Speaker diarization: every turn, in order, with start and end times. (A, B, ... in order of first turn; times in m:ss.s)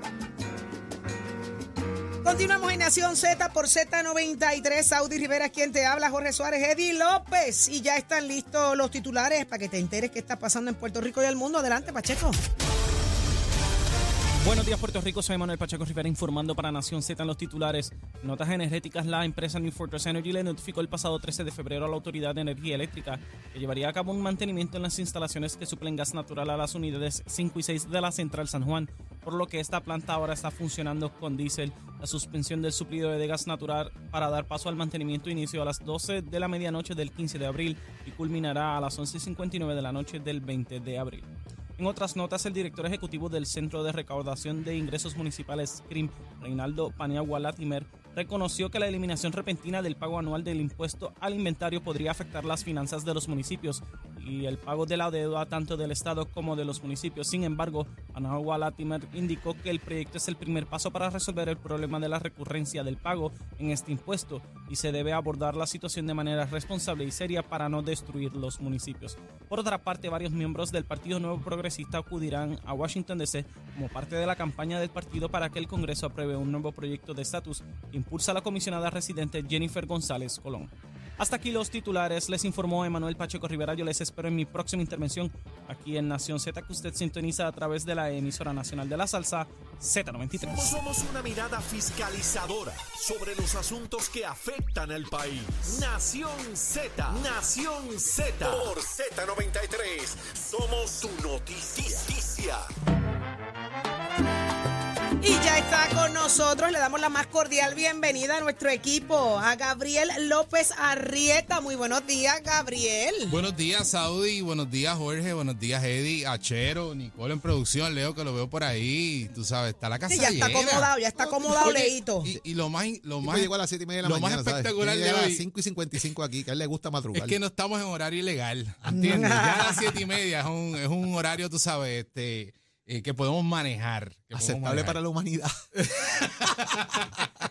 0:02.2-0:12.4 A
0:14.4-1:30.8 B
1:30.4-1:42.6 C
1:45.2-1:53.4 A
1:53.3-2:03.5 D
2:00.1-2:02.3 A
2:01.2-2:01.8 E
2:03.2-2:07.4 E
2:04.0-2:05.4 D
2:07.1-2:15.0 D
2:08.9-2:10.0 A
2:14.3-2:15.5 E
2:15.8-2:17.3 D